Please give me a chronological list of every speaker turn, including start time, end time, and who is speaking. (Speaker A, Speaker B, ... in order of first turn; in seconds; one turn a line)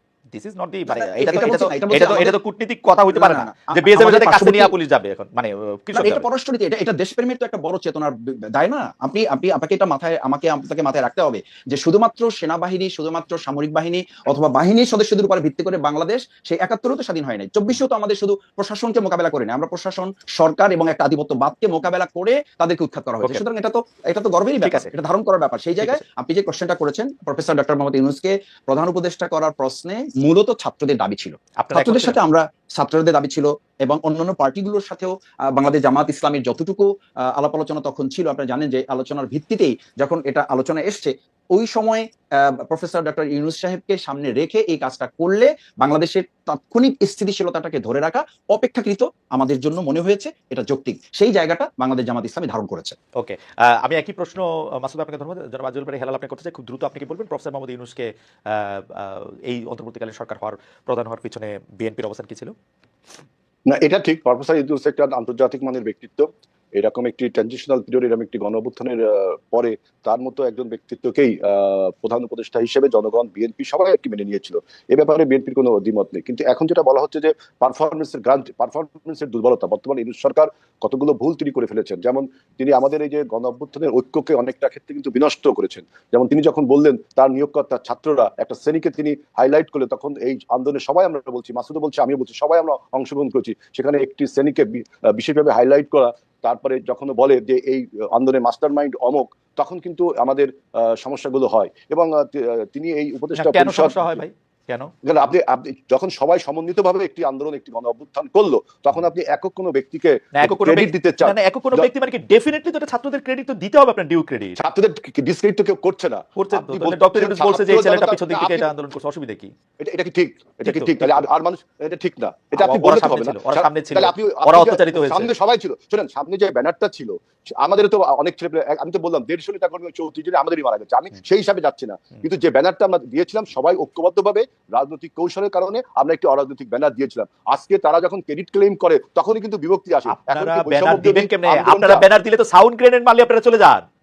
Speaker A: 0.3-6.2
Speaker B: 0.9-2.4
Speaker B: 3.1-4.7
Speaker B: 5.9-53.0
Speaker A: 24.6-24.9
Speaker A: 31.6-32.2
Speaker A: 53.1-62.5
Speaker C: 63.7-104.2
Speaker A: 103.3-104.9
Speaker C: 105.0-111.9
Speaker A: 110.4-114.6
Speaker C: 114.5-118.7
Speaker A: 116.3-119.5
Speaker C: 119.8-142.0
Speaker A: 120.6-121.2
Speaker A: 122.5-125.3
Speaker A: 140.1-143.8